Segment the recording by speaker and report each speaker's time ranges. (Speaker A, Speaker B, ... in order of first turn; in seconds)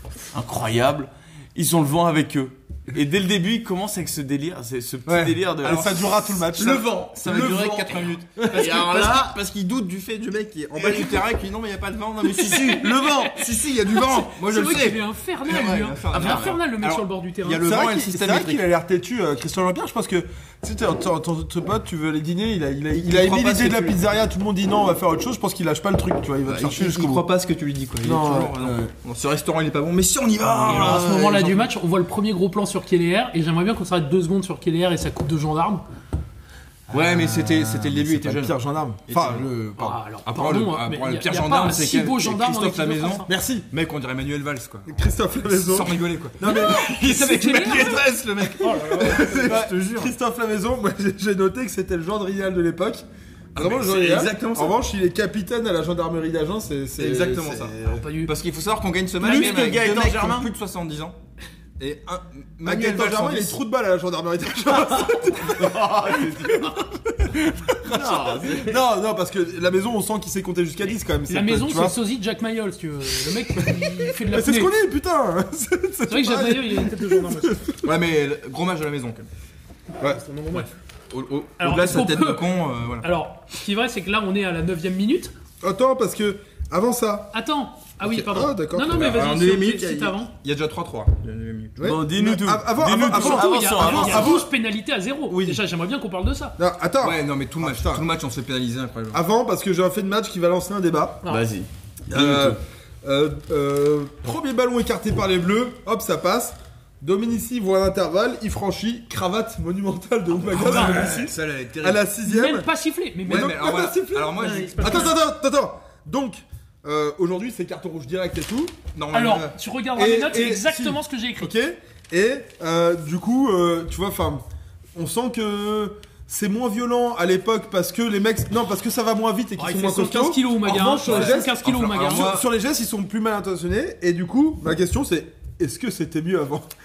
Speaker A: 0.3-9.4, 12.3-13.5, 16.1-16.5, 59.2-60.5, 65.3-66.9, 67.9-68.8, 91.8-94.3, 101.2-101.7
Speaker B: 5.1-6.9, 10.8-11.2, 17.6-27.3, 28.0-28.9, 36.9-40.0, 43.3-43.7, 44.9-58.0, 62.6-66.7, 67.3-72.0, 73.5-77.8, 85.6-87.3, 88.0-89.2, 91.8-94.5, 95.3-95.6, 96.6-98.0, 99.1-101.3, 102.1-112.7, 113.2-118.8, 120.0-124.4, 124.9-136.7
Speaker C: 5.6-6.4, 7.1-18.6, 22.9-24.0, 26.4-31.7, 36.9-38.5, 39.1-39.5, 40.2-50.1, 53.5-54.7, 57.0-57.7, 58.2-61.2, 61.8-63.6, 77.8-79.3, 80.5-83.0, 88.9-91.8, 97.0-99.2, 102.1-102.5, 110.4-112.0, 113.2-115.1, 118.9-121.0, 131.0-132.4
Speaker D: 12.5-13.2, 13.9-17.6, 30.6-35.8, 39.8-43.3, 46.4-48.0, 48.6-49.5, 57.8-58.3, 71.3-74.7, 76.1-77.6, 80.0-80.7, 81.6-85.3, 87.3-90.3, 93.1-96.5, 110.6-111.3, 112.2-113.6, 114.4-115.2, 119.1-121.5, 129.6-132.3